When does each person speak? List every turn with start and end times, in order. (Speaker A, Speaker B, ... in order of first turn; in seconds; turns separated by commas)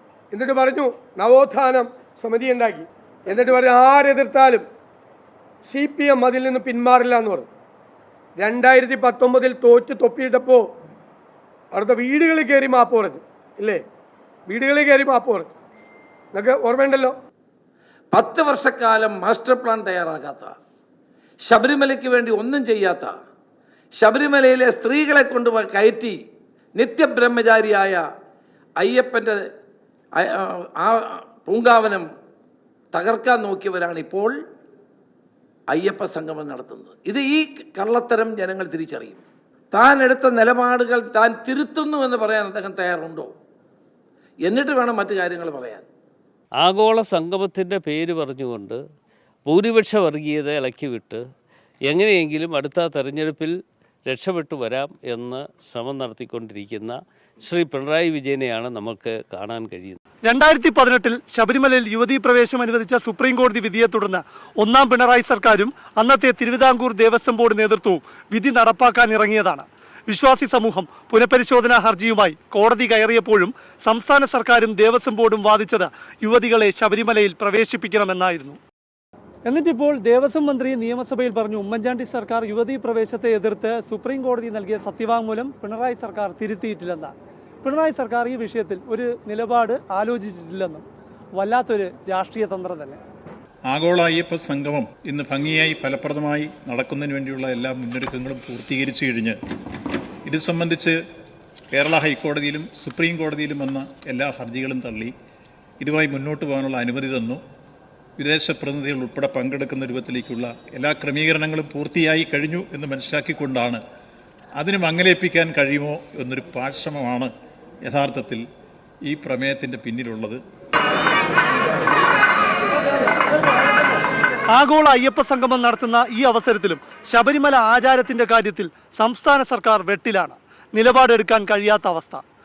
Speaker A: 0.3-4.6, Speaker A: 5.6-7.5, Speaker A: 8.4-10.7, Speaker A: 11.7-13.8, Speaker A: 14.5-15.5, Speaker A: 16.3-17.1, Speaker B: 18.1-20.5, Speaker B: 21.4-23.2, Speaker B: 24.0-26.2, Speaker B: 26.8-28.0, Speaker B: 28.8-29.5, Speaker B: 30.1-32.1, Speaker B: 32.9-34.4, Speaker B: 35.7-43.3, Speaker B: 44.4-45.9, Speaker C: 46.6-48.8, Speaker C: 49.5-51.2, Speaker C: 51.9-53.5, Speaker C: 54.1-60.0, Speaker D: 60.2-78.6, Speaker D: 79.5-90.8, Speaker D: 91.3-93.0, Speaker E: 93.7-99.3, Speaker E: 100.2-101.0, Speaker E: 101.7-105.1, Speaker E: 105.8-107.4, Speaker E: 108.2-113.8, Speaker E: 114.6-117.3, Speaker E: 117.8-118.4, Speaker E: 119.1-120.4, Speaker D: 124.5-132.2